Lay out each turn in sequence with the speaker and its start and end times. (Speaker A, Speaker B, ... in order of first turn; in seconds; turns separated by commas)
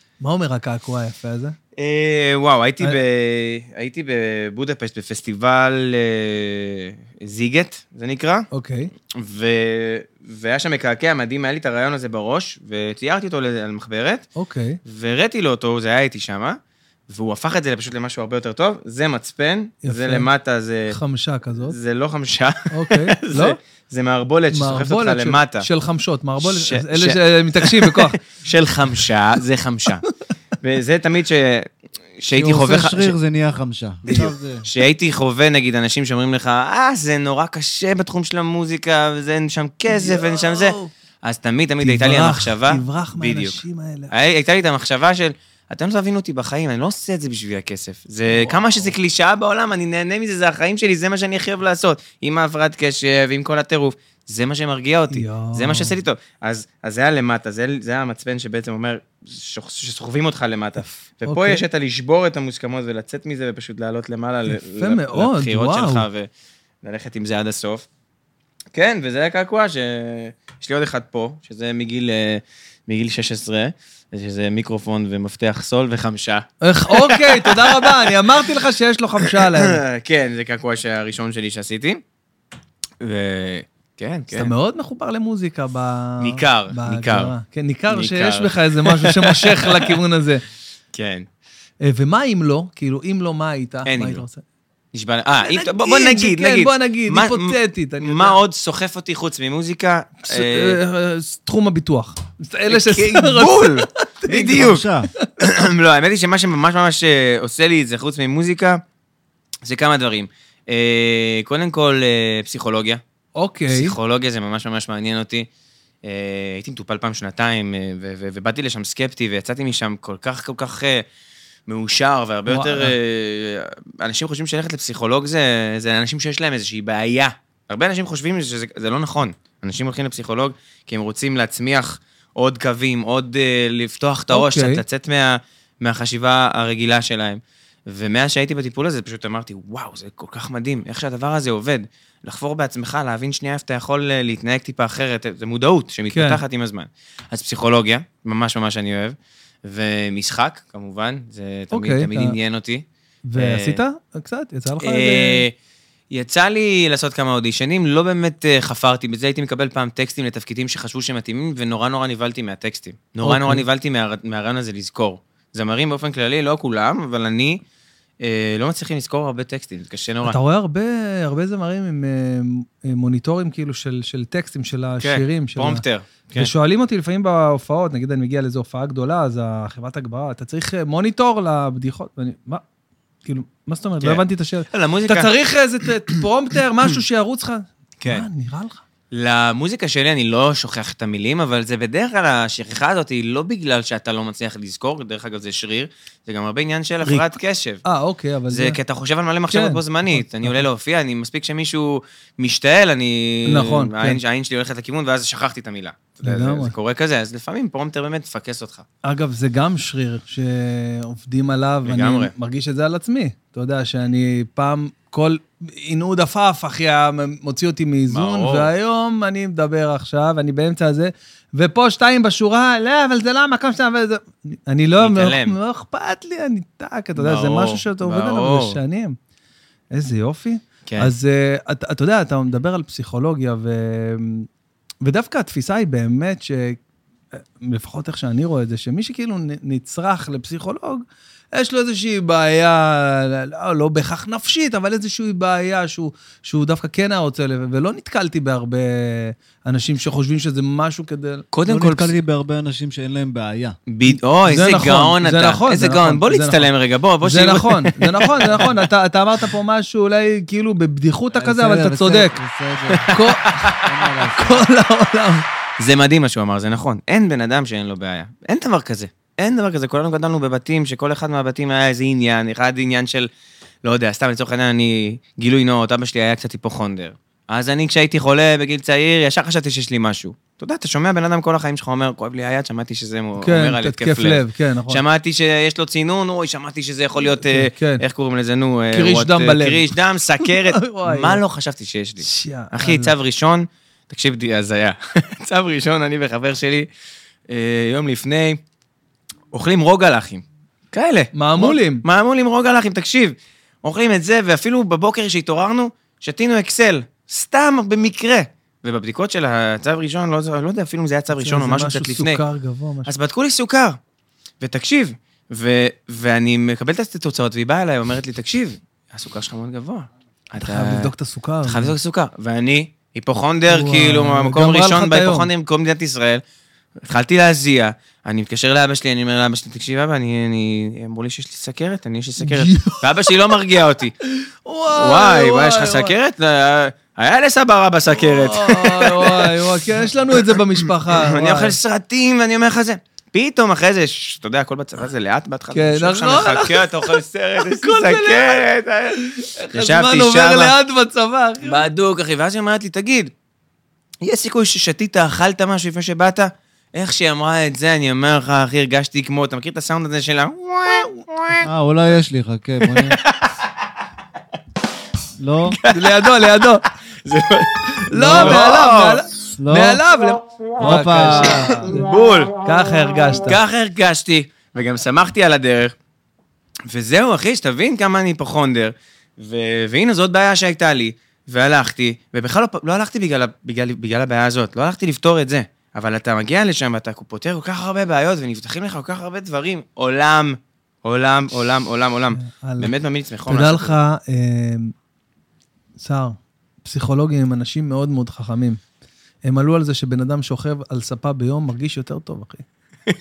Speaker A: 0.2-1.6, Speaker B: 1.8-8.5, Speaker A: 8.5-8.9, Speaker B: 9.1-14.3, Speaker A: 14.4-14.8, Speaker B: 14.8-21.0, Speaker A: 19.8-20.3, Speaker A: 20.9-21.8, Speaker B: 21.6-25.7, Speaker A: 22.7-23.6, Speaker A: 24.5-28.2, Speaker B: 26.4-30.0, Speaker B: 30.6-33.1, Speaker C: 32.3-34.6, Speaker A: 34.1-34.3, Speaker B: 34.1-66.3, Speaker A: 39.9-40.9, Speaker A: 41.8-44.1, Speaker A: 48.3-48.9, Speaker A: 55.1-56.0, Speaker A: 60.8-61.6, Speaker A: 64.5-66.0, Speaker B: 66.8-67.8, Speaker B: 68.7-78.2, Speaker A: 76.6-79.8, Speaker B: 79.2-82.0, Speaker B: 83.0-84.5, Speaker A: 84.3-90.4, Speaker B: 86.2-87.3, Speaker B: 87.9-89.9, Speaker B: 90.9-91.3, Speaker A: 91.8-94.4, Speaker B: 93.8-94.2, Speaker B: 94.9-100.8, Speaker A: 95.4-98.4, Speaker A: 100.2-104.7, Speaker B: 102.7-104.8, Speaker C: 104.4-105.1, Speaker B: 105.4-108.8, Speaker B: 109.6-113.0, Speaker A: 113.3-114.0, Speaker B: 113.7-115.5, Speaker B: 116.0-121.0, Speaker B: 121.7-152.8, Speaker A: 122.5-122.9, Speaker A: 134.3-134.8, Speaker A: 146.1-146.4, Speaker A: 151.7-152.4, Speaker A: 153.3-155.4, Speaker B: 153.4-153.8, Speaker B: 154.8-155.5, Speaker B: 156.1-167.6, Speaker A: 163.2-163.6, Speaker B: 168.2-170.4, Speaker A: 170.2-175.8, Speaker B: 175.0-176.5, Speaker A: 176.3-182.6, Speaker A: 183.2-188.8, Speaker B: 184.0-185.3, Speaker B: 188.0-188.2, Speaker B: 189.1-197.8, Speaker A: 197.0-197.3, Speaker A: 197.8-198.8, Speaker B: 198.5-208.8, Speaker A: 199.5-200.6, Speaker A: 203.4-204.2, Speaker A: 206.2-206.7, Speaker A: 209.0-229.2, Speaker B: 211.8-212.3, Speaker B: 218.1-218.7, Speaker B: 225.0-225.6, Speaker B: 227.2-228.8, Speaker A: 229.9-234.5, Speaker B: 230.8-231.1, Speaker A: 235.0-236.8, Speaker A: 237.4-251.5, Speaker B: 251.5-252.2, Speaker C: 251.7-253.8, Speaker B: 253.9-258.7, Speaker A: 254.1-256.7, Speaker A: 257.2-262.4, Speaker C: 261.3-264.6, Speaker B: 262.9-263.9, Speaker A: 263.1-263.8, Speaker A: 264.3-265.4, Speaker B: 265.8-273.3, Speaker B: 273.8-296.9, Speaker A: 283.4-285.0, Speaker A: 287.2-288.0, Speaker A: 288.9-289.9, Speaker A: 290.4-291.4, Speaker A: 292.2-293.1, Speaker B: 297.5-298.6, Speaker B: 299.5-312.4, Speaker A: 301.3-302.0, Speaker A: 311.3-313.1, Speaker B: 313.1-314.0, Speaker B: 314.6-321.1, Speaker A: 320.6-321.9, Speaker B: 321.6-326.4, Speaker A: 323.7-325.5, Speaker B: 327.0-334.1, Speaker A: 332.4-333.0, Speaker A: 334.4-336.1, Speaker B: 334.9-339.8, Speaker A: 338.1-341.8, Speaker B: 341.1-350.7, Speaker A: 345.7-351.9, Speaker B: 351.6-353.3, Speaker B: 354.2-361.7, Speaker C: 361.6-363.2, Speaker B: 362.9-363.5, Speaker C: 365.4-365.8, Speaker B: 365.7-366.7, Speaker A: 365.9-366.8, Speaker B: 367.2-369.2, Speaker A: 368.1-372.1, Speaker C: 368.2-368.7, Speaker C: 369.6-370.0, Speaker C: 370.8-371.9, Speaker B: 370.9-372.5, Speaker A: 372.6-373.6, Speaker B: 373.4-375.9, Speaker B: 376.9-393.9, Speaker A: 392.3-392.9, Speaker A: 393.5-394.9, Speaker A: 396.0-398.8, Speaker A: 399.4-402.6